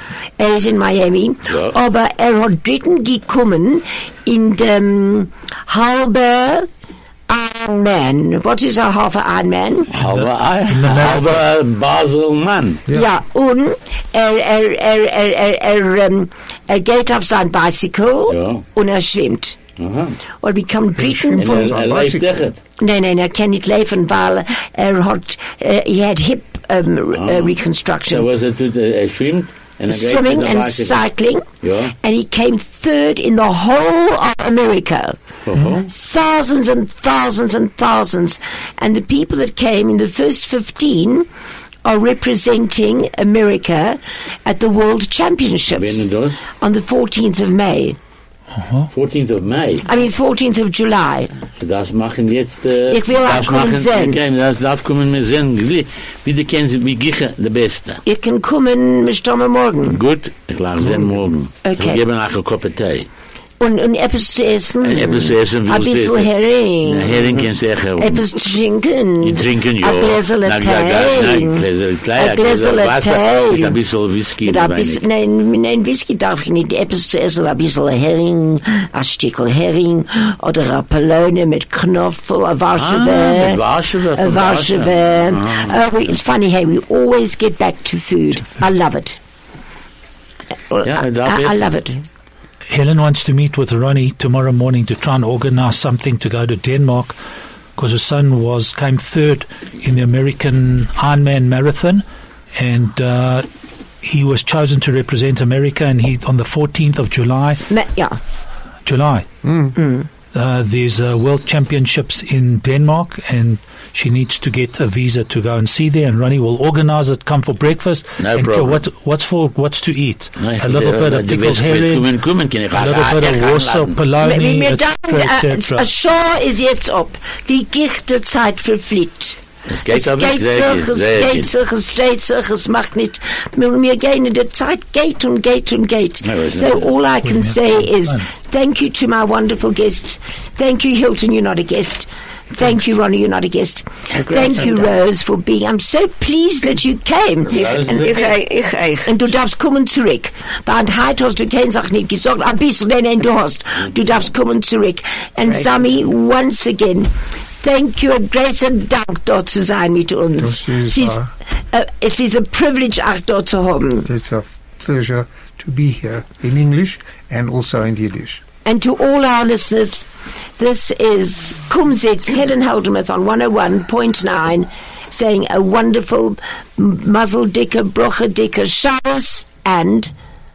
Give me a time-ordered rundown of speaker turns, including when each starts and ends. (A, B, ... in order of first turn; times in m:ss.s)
0:00.4-0:06.7 A
0:01.5-0:01.8 B
0:07.3-0:09.9 A
0:09.9-0:12.8 B
0:10.0-0:11.4 C
0:12.9-0:19.6 A
0:18.3-0:18.6 B
0:19.8-0:20.2 B
0:20.4-0:21.7 A
0:21.0-0:22.4 D
0:21.4-0:22.6 B
0:22.8-0:28.2 A
0:27.2-0:27.6 B
0:28.1-0:31.0 B
0:29.9-0:31.4 A
0:31.6-0:31.9 B
0:32.0-0:35.2 A
0:35.4-0:35.9 B
0:35.9-0:41.3 A
0:41.8-0:46.0 A
0:45.7-0:46.4 B
0:46.6-0:48.0 A
0:48.5-0:48.9 C
0:48.9-0:49.8 B
0:49.8-0:51.3 A
0:51.6-0:58.0 B
0:52.9-0:54.2 A
0:58.0-1:00.0 A
0:59.9-1:03.1 B
1:01.6-1:02.0 A
1:03.6-1:07.3 A
1:04.8-1:06.3 B
1:06.8-1:08.3 B
1:08.0-1:11.6 A
1:09.2-1:15.0 B
1:12.2-1:13.8 A
1:14.4-1:23.6 A
1:22.8-1:25.8 B
1:24.2-1:29.2 A
1:30.7-1:32.0 A
1:30.8-1:31.6 B
1:32.7-1:37.2 C
1:37.8-1:42.0 C
1:42.5-1:43.4 C
1:44.0-1:47.7 C
1:47.7-1:48.2 A
1:48.8-1:49.3 C
1:49.4-1:49.7 D
1:49.8-1:50.0 A
1:50.3-2:02.1 C
1:58.2-1:58.8 B
2:00.4-2:04.0 B
2:02.7-2:05.9 C
2:04.2-2:09.4 A
2:09.7-2:11.5 B
2:09.9-2:28.1 A
2:16.2-2:16.9 B
2:17.2-2:18.3 C
2:24.1-2:24.9 E
2:27.5-2:28.4 B
2:27.5-2:29.1 E
2:29.0-2:41.2 A
2:35.4-2:35.9 E
2:40.4-2:41.3 D
2:41.7-2:44.1 A
2:44.0-2:48.4 D
2:48.6-2:50.1 A
2:50.6-3:00.1 A